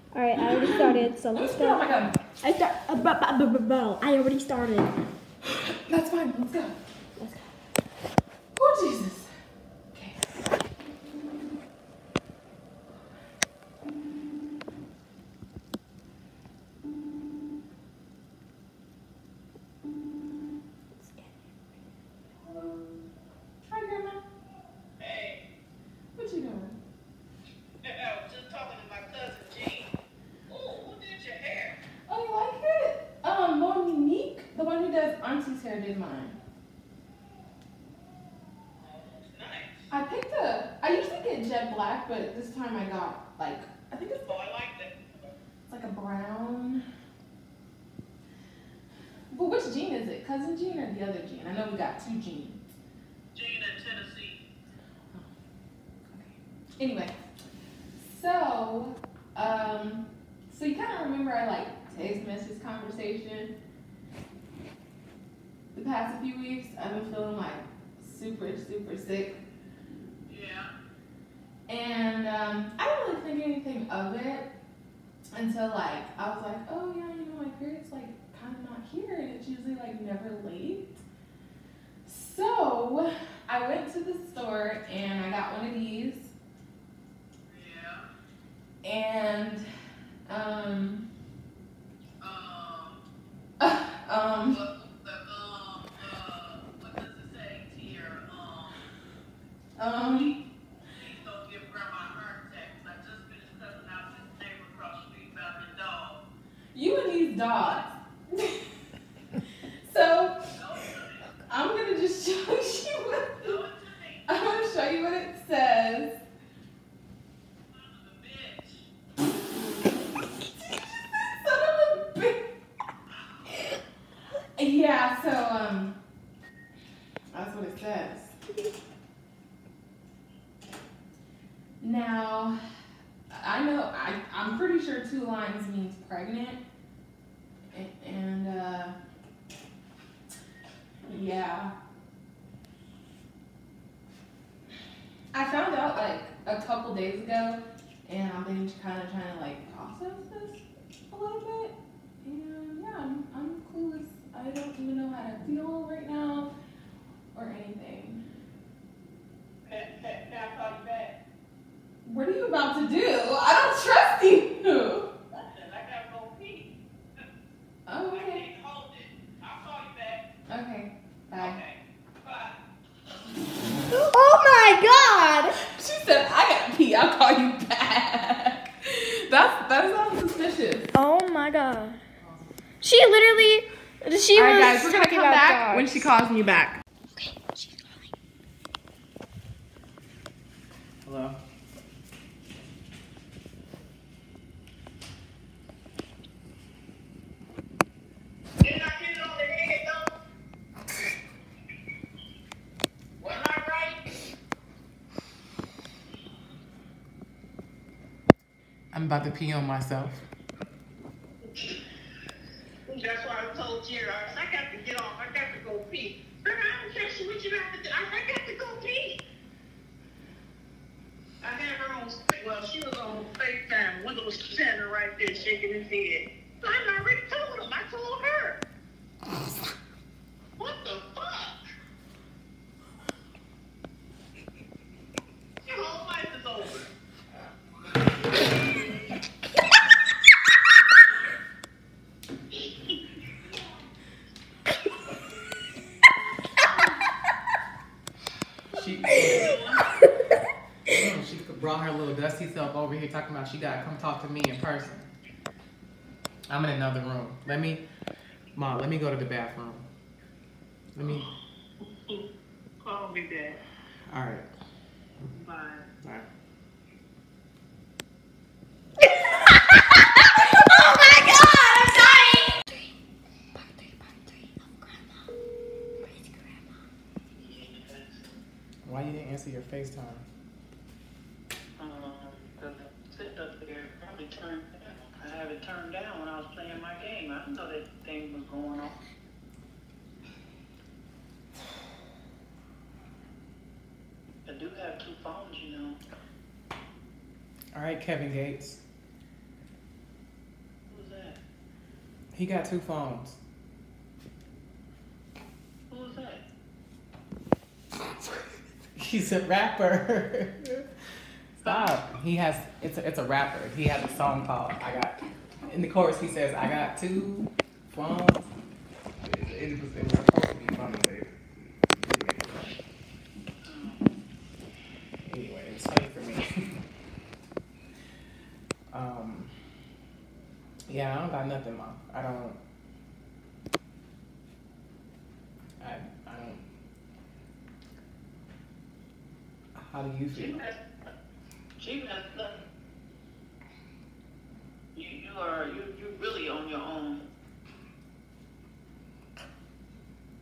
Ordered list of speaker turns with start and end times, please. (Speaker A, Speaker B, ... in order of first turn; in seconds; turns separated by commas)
Speaker A: 0.1-1.8, Speaker B: 0.3-2.2, Speaker A: 2.4-4.9, Speaker B: 5.8-6.8, Speaker A: 7.2-7.5, Speaker B: 8.5-9.3, Speaker B: 23.7-24.2, Speaker C: 25.0-25.4, Speaker B: 26.1-26.8, Speaker C: 27.8-31.8, Speaker B: 32.1-36.4, Speaker C: 38.7-39.9, Speaker B: 39.9-44.2, Speaker C: 44.2-45.3, Speaker B: 45.7-46.8, Speaker B: 49.3-52.6, Speaker C: 53.3-54.5, Speaker B: 56.1-57.1, Speaker B: 58.0-63.5, Speaker B: 65.7-69.4, Speaker C: 70.3-70.7, Speaker B: 71.7-74.5, Speaker B: 75.3-81.0, Speaker B: 82.0-86.3, Speaker C: 87.5-88.1, Speaker B: 88.8-89.7, Speaker B: 90.2-91.0, Speaker C: 92.2-93.0, Speaker B: 93.6-94.6, Speaker C: 94.5-98.9, Speaker B: 99.8-100.3, Speaker C: 100.0-106.2, Speaker B: 106.7-108.6, Speaker C: 107.6-107.9, Speaker B: 109.8-110.4, Speaker C: 110.5-111.3, Speaker B: 111.5-113.6, Speaker C: 113.4-114.6, Speaker B: 114.3-116.2, Speaker C: 117.7-118.9, Speaker B: 121.4-122.5, Speaker B: 124.5-126.0, Speaker B: 127.3-128.3, Speaker B: 131.8-132.6, Speaker B: 133.3-136.6, Speaker B: 137.7-138.9, Speaker B: 141.1-141.7, Speaker B: 145.3-156.5, Speaker B: 157.3-158.2, Speaker C: 159.7-161.2, Speaker B: 162.0-165.1, Speaker C: 165.3-166.7, Speaker B: 167.8-168.4, Speaker C: 168.1-170.3, Speaker B: 170.5-171.6, Speaker C: 171.4-172.6, Speaker A: 174.1-175.5, Speaker B: 175.6-180.9, Speaker A: 180.9-182.0, Speaker A: 182.8-186.0, Speaker B: 184.3-186.8, Speaker A: 187.2-187.9, Speaker D: 191.0-191.4, Speaker C: 198.6-200.1, Speaker C: 203.2-204.2, Speaker D: 208.9-210.2, Speaker C: 212.9-219.2, Speaker C: 221.4-228.6, Speaker C: 230.6-231.6, Speaker C: 235.6-236.9, Speaker D: 248.7-249.6, Speaker C: 248.7-249.9, Speaker D: 250.8-255.1, Speaker D: 256.5-257.8, Speaker D: 258.5-259.9, Speaker D: 260.9-261.3, Speaker C: 261.0-262.2, Speaker C: 262.8-263.6, Speaker D: 264.1-264.5, Speaker C: 265.3-265.9, Speaker D: 266.0-266.3, Speaker A: 269.1-272.9, Speaker A: 273.5-275.2, Speaker A: 276.0-276.6, Speaker C: 277.3-278.2, Speaker D: 278.8-280.2, Speaker C: 281.8-289.0, Speaker C: 294.4-296.0, Speaker D: 297.7-298.8, Speaker C: 300.9-301.4, Speaker D: 302.3-303.4, Speaker C: 305.9-306.4, Speaker D: 308.9-310.9, Speaker D: 311.6-318.5, Speaker C: 311.6-312.0, Speaker D: 319.2-321.3, Speaker D: 321.9-322.7, Speaker C: 323.6-324.1, Speaker D: 325.3-326.8, Speaker D: 328.9-329.5, Speaker D: 330.9-332.6, Speaker D: 335.8-336.6, Speaker D: 339.8-340.7, Speaker C: 340.3-340.8, Speaker C: 341.8-342.6, Speaker C: 344.9-347.2